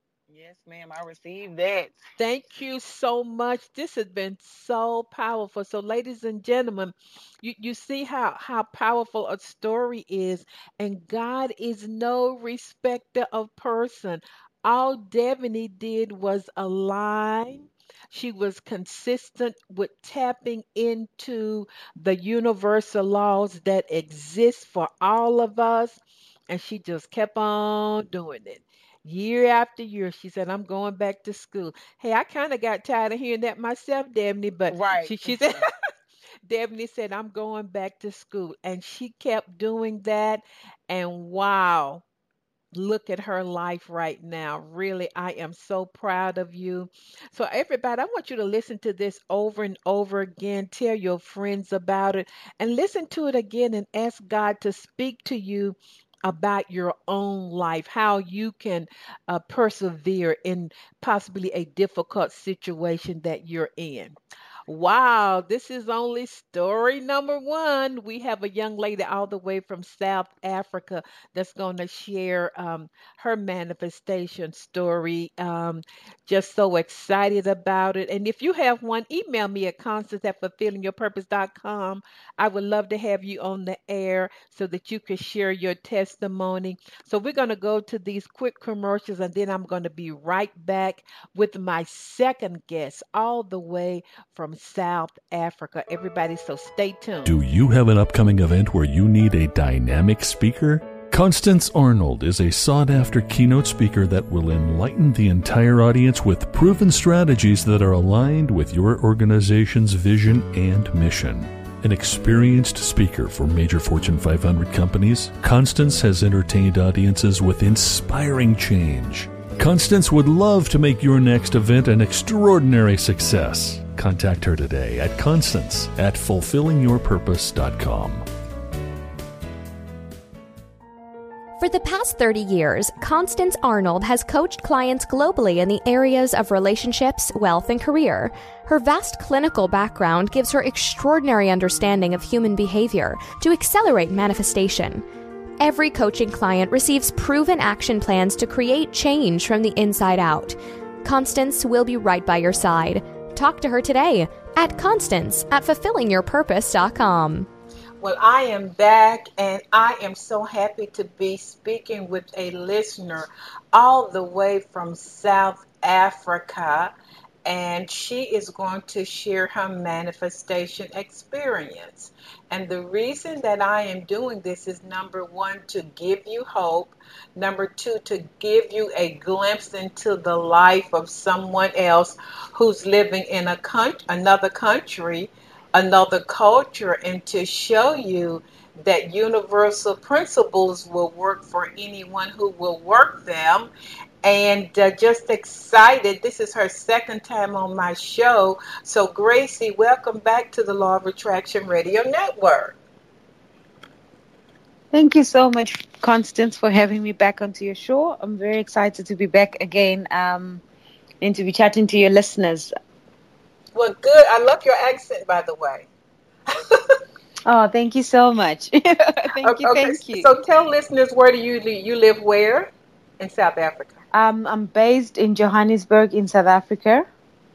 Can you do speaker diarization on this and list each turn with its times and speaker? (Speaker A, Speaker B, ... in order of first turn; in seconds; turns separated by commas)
Speaker A: 0.3-2.0, Speaker B: 2.2-35.6, Speaker A: 34.7-35.6, Speaker B: 36.5-42.0, Speaker B: 42.7-64.2, Speaker B: 64.7-97.3, Speaker C: 97.2-128.2, Speaker D: 131.6-145.0, Speaker D: 145.6-157.5, Speaker B: 158.0-166.9, Speaker B: 167.4-193.7, Speaker B: 194.2-202.8, Speaker E: 204.9-210.6, Speaker E: 211.2-212.7, Speaker B: 213.7-215.9, Speaker B: 216.5-216.8, Speaker E: 217.4-220.3, Speaker B: 219.4-223.9, Speaker E: 224.1-227.1